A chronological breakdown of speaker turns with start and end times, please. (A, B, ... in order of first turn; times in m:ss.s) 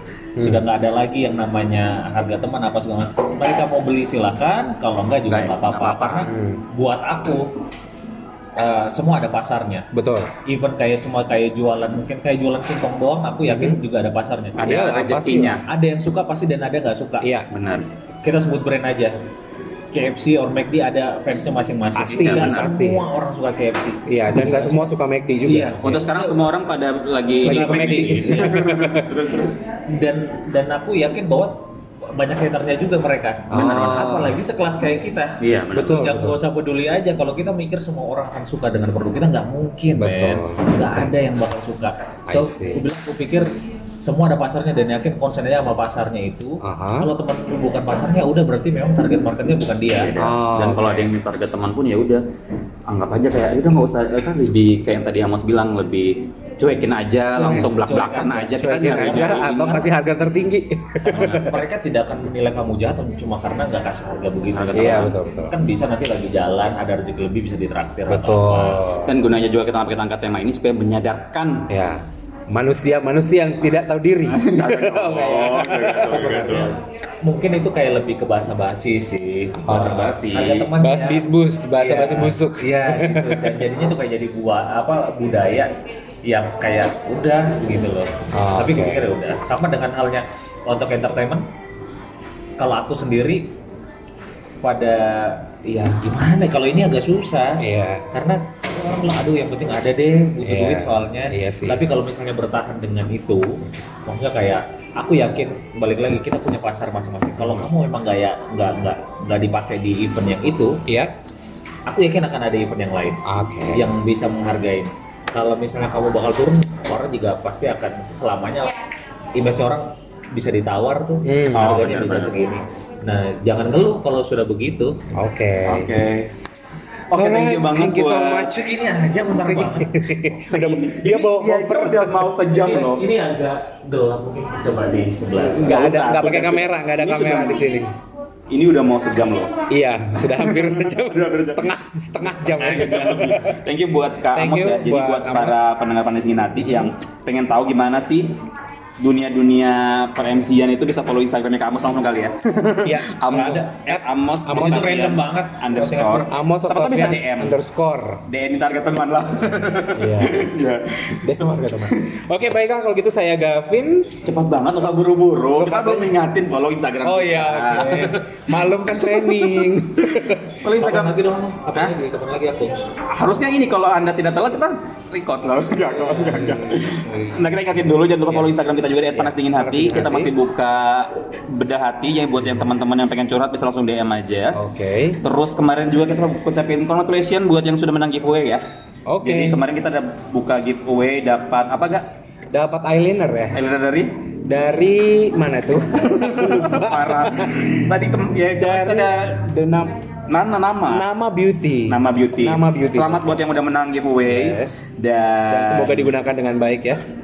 0:00.4-0:00.6 A
0:00.4-0:07.5 B
0:05.3-0:06.3 C
0:06.3-0:06.6 A
0:08.6-0:09.9 B
0:09.9-0:10.3 A
0:10.4-0:14.7 B
0:13.4-0:13.8 A
0:14.6-0:15.6 C
0:14.6-0:15.6 A
0:15.6-0:17.3 B
0:17.2-0:17.5 A
0:17.5-0:17.9 C
0:18.2-0:19.2 B
0:19.9-0:24.9 B
0:22.0-0:23.0 A
0:22.0-0:22.7 C
0:24.1-0:26.0 A
0:25.4-0:26.5 B
0:25.8-0:29.6 C
0:27.4-0:28.7 B
0:27.4-0:29.1 A
0:29.9-0:50.1 B
0:33.5-0:34.4 A
0:33.5-0:34.1 C
0:35.4-0:36.1 C
0:35.7-0:36.4 A
0:39.9-0:41.1 A
0:42.3-0:42.8 A
0:46.6-0:47.1 A
0:49.9-0:52.2 C
0:50.2-0:51.1 A
0:52.9-0:59.8 C
0:57.3-0:59.9 B
0:58.6-1:01.6 A
1:01.0-1:08.9 B
1:01.1-1:01.5 C
1:04.5-1:05.1 C
1:04.7-1:05.5 A
1:08.1-1:09.1 A
1:09.0-1:11.7 C
1:11.7-1:16.1 A
1:14.2-1:16.8 C
1:15.9-1:21.3 B
1:19.5-1:20.1 A
1:19.7-1:20.7 C
1:20.8-1:23.6 A
1:21.8-1:25.7 B
1:26.2-1:31.4 B
1:28.3-1:29.0 A
1:32.6-1:33.5 B
1:34.6-1:50.8 B
1:37.6-1:38.0 A
1:40.4-1:41.8 A
1:47.4-1:47.7 A
1:50.9-1:51.1 A
1:51.9-1:53.2 B
1:53.2-1:53.9 A
1:53.7-1:58.8 B
1:59.3-2:05.0 B
2:01.2-2:01.8 A
2:01.5-2:02.4 C
2:05.1-2:06.0 A
2:05.6-2:06.3 C
2:07.1-2:08.5 C
2:07.1-2:12.3 A
2:08.5-2:10.0 B
2:10.3-2:13.1 C
2:12.5-2:15.8 B
2:15.3-2:17.7 C
2:15.5-2:18.0 A
2:18.5-2:19.6 C
2:19.7-2:23.6 A
2:20.2-2:21.7 C
2:22.3-2:28.4 C
2:22.6-2:23.2 B
2:24.3-2:25.6 A
2:29.0-2:37.6 C
2:32.8-2:34.9 A
2:33.3-2:33.8 B
2:34.5-2:36.3 B
2:36.3-2:38.2 A
2:38.3-2:42.1 C
2:39.9-2:40.5 A
2:41.2-2:44.2 A
2:44.2-2:51.2 C
2:45.6-2:46.1 A
2:47.0-2:50.6 A
2:47.8-2:48.1 B
2:50.7-2:52.8 B
2:53.1-3:04.6 C
2:56.0-2:56.8 A
2:56.0-2:57.5 B
2:59.1-3:00.3 A
3:04.5-3:05.2 A
3:05.2-3:08.6 C
3:09.1-3:09.6 A
3:09.2-3:12.1 C
3:12.5-3:13.6 A
3:13.5-3:14.1 C
3:14.4-3:17.8 A
3:15.9-3:19.5 C
3:18.5-3:19.9 A
3:20.3-3:21.0 C
3:20.9-3:23.4 A
3:21.9-3:26.1 C
3:24.2-3:25.0 A
3:25.5-3:27.0 A